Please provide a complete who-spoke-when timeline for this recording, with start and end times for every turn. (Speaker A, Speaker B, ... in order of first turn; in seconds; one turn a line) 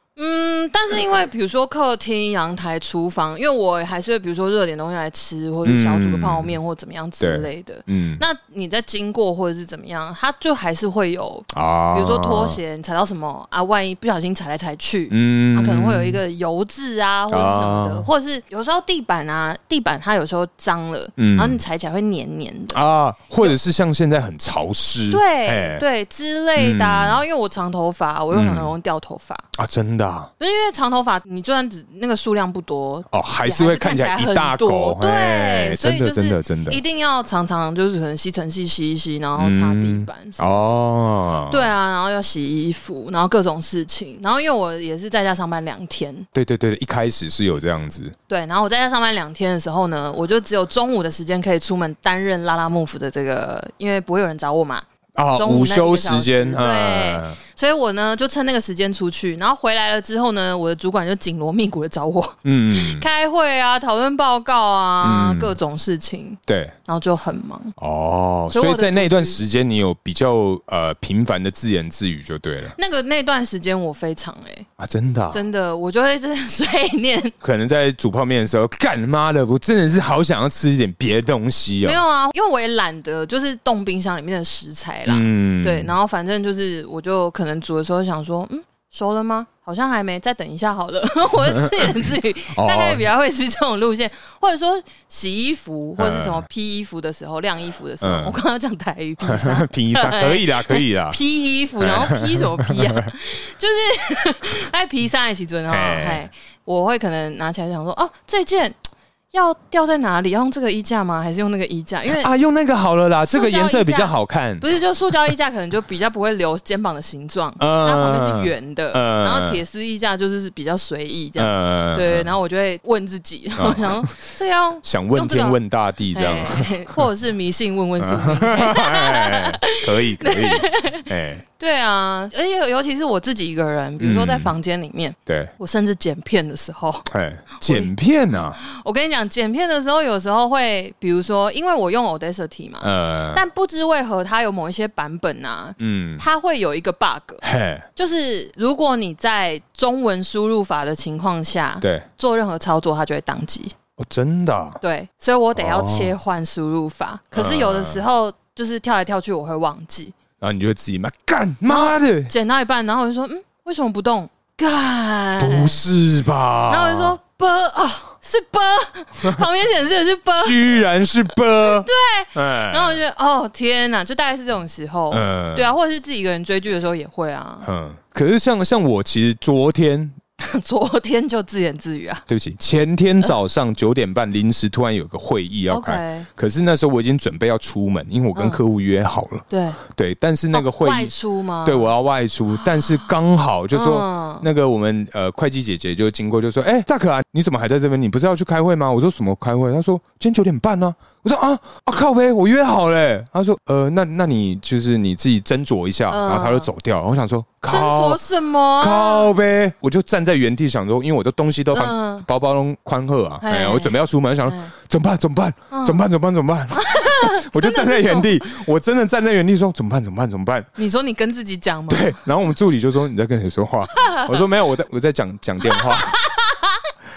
Speaker A: 0.1-22.8
Speaker B: 5.6-6.6
Speaker B: 7.2-8.2
Speaker B: 11.5-12.6
Speaker B: 15.1-16.2
Speaker B: 17.3-18.1
Speaker B: 21.2-21.6
Speaker B: 22.7-25.8
Speaker A: 25.1-29.4
Speaker B: 26.6-27.2
Speaker B: 28.3-28.7
Speaker B: 29.6-30.3
Speaker A: 30.4-40.4
Speaker B: 33.1-36.8
Speaker B: 39.4-41.7
Speaker A: 41.5-46.3
Speaker B: 46.3-48.1
Speaker A: 48.3-67.7
Speaker B: 55.1-57.4
Speaker B: 62.4-63.0
Speaker B: 65.0-65.5
Speaker B: 66.5-66.7
Speaker B: 67.8-72.8
Speaker A: 68.5-69.4
Speaker A: 72.7-74.7
Speaker B: 74.8-75.4
Speaker A: 75.3-77.3
Speaker B: 77.4-82.0
Speaker A: 81.8-108.8
Speaker B: 85.0-85.9
Speaker B: 91.6-91.9
Speaker B: 92.5-93.0
Speaker B: 96.0-96.5
Speaker B: 98.0-98.4
Speaker B: 99.2-101.2
Speaker B: 101.8-103.0
Speaker B: 105.7-106.3
Speaker A: 109.3-112.3
Speaker B: 112.1-114.7
Speaker A: 113.2-125.6
Speaker B: 117.6-119.6
Speaker B: 121.4-122.3
Speaker B: 123.6-124.1
Speaker B: 124.8-127.1
Speaker A: 126.1-147.4
Speaker B: 128.0-131.4
Speaker B: 134.0-134.5
Speaker B: 135.3-135.5
Speaker B: 137.1-138.6
Speaker B: 142.8-143.4
Speaker B: 145.8-146.2
Speaker B: 147.4-147.9
Speaker A: 147.9-153.7
Speaker B: 151.8-152.1
Speaker B: 154.0-154.8
Speaker A: 154.8-160.1
Speaker B: 155.6-156.1
Speaker B: 157.3-158.0
Speaker B: 160.4-162.3
Speaker A: 161.7-165.8
Speaker B: 165.4-167.2
Speaker A: 166.7-177.7
Speaker B: 170.4-173.0
Speaker B: 175.1-175.7
Speaker B: 177.6-180.2
Speaker A: 180.4-182.2
Speaker B: 182.3-191.1
Speaker A: 185.7-186.3
Speaker A: 188.3-188.6
Speaker A: 189.5-189.8
Speaker A: 190.5-191.9
Speaker B: 191.6-208.2
Speaker A: 192.6-193.1
Speaker A: 193.7-194.5
Speaker A: 206.1-206.7
Speaker A: 207.7-209.3
Speaker B: 208.8-220.7
Speaker A: 211.7-212.3
Speaker A: 213.4-214.7
Speaker A: 215.7-216.0
Speaker A: 216.7-218.6
Speaker A: 220.8-222.3
Speaker B: 221.9-226.2
Speaker A: 223.9-224.4
Speaker A: 225.6-226.8